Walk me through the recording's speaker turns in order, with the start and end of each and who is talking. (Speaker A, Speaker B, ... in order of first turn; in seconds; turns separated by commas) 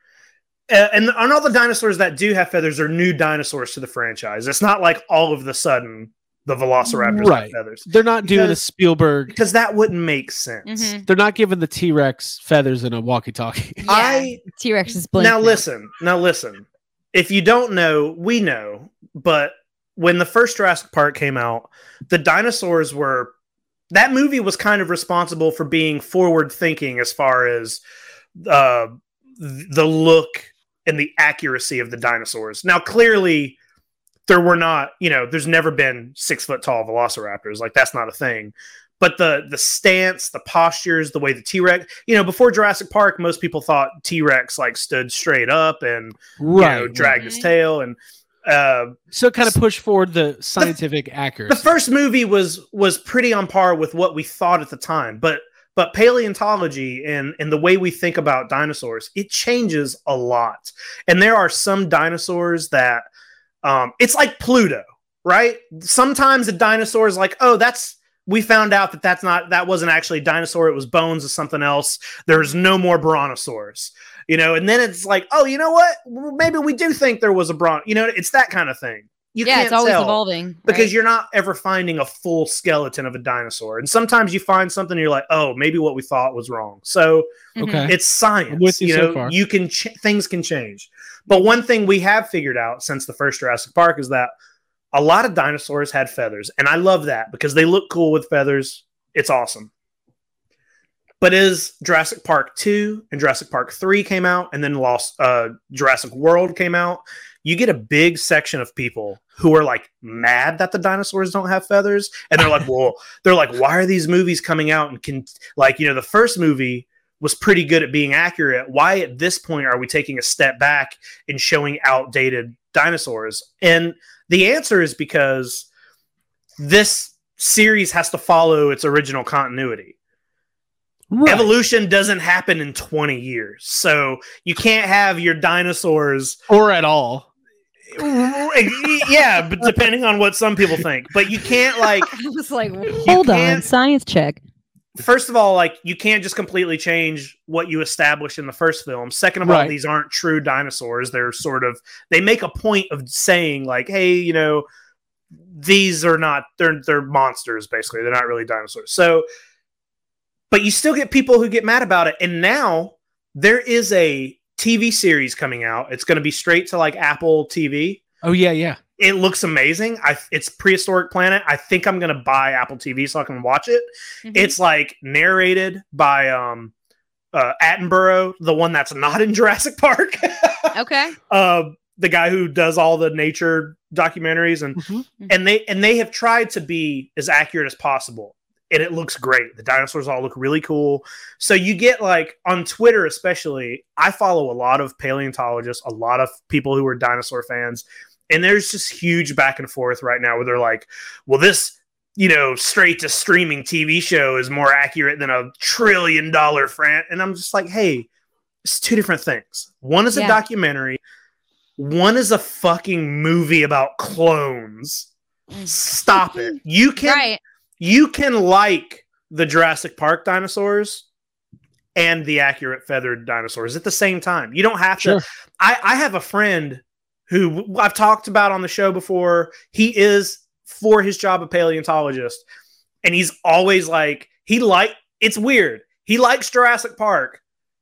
Speaker A: 0.7-8.6, Speaker B: 7.0-9.3, Speaker A: 9.3-10.9, Speaker C: 10.7-11.0, Speaker B: 11.1-13.9, Speaker C: 13.8-15.6, Speaker A: 13.8-14.4, Speaker A: 15.2-23.3, Speaker A: 23.9-27.8, Speaker A: 28.4-33.6, Speaker A: 34.3-49.5, Speaker B: 46.4-47.2, Speaker C: 47.2-47.5, Speaker B: 49.1-51.6, Speaker A: 51.5-63.0, Speaker A: 63.6-94.3, Speaker C: 79.4-80.9, Speaker C: 87.5-87.9, Speaker B: 87.6-87.9, Speaker B: 88.5-89.3, Speaker A: 94.9-99.7, Speaker A: 101.2-125.7, Speaker A: 126.6-129.9, Speaker B: 131.1-131.5, Speaker A: 131.2-136.4, Speaker B: 136.5-137.3, Speaker A: 137.9-142.1, Speaker C: 142.1-144.4, Speaker A: 143.0-143.7, Speaker A: 145.0-154.7, Speaker B: 149.4-149.8, Speaker A: 155.5-159.2, Speaker A: 160.5-168.0, Speaker B: 168.2-168.8, Speaker A: 169.0-176.7, Speaker C: 174.2-174.5, Speaker A: 177.3-180.7, Speaker C: 180.7-181.2, Speaker A: 181.3-208.1, Speaker B: 184.8-185.0, Speaker A: 208.6-211.0, Speaker C: 210.1-210.4, Speaker A: 211.8-215.1, Speaker C: 215.5-217.4, Speaker A: 215.6-217.3, Speaker A: 217.8-221.0, Speaker A: 221.9-232.4, Speaker B: 225.0-225.2, Speaker A: 233.0-237.4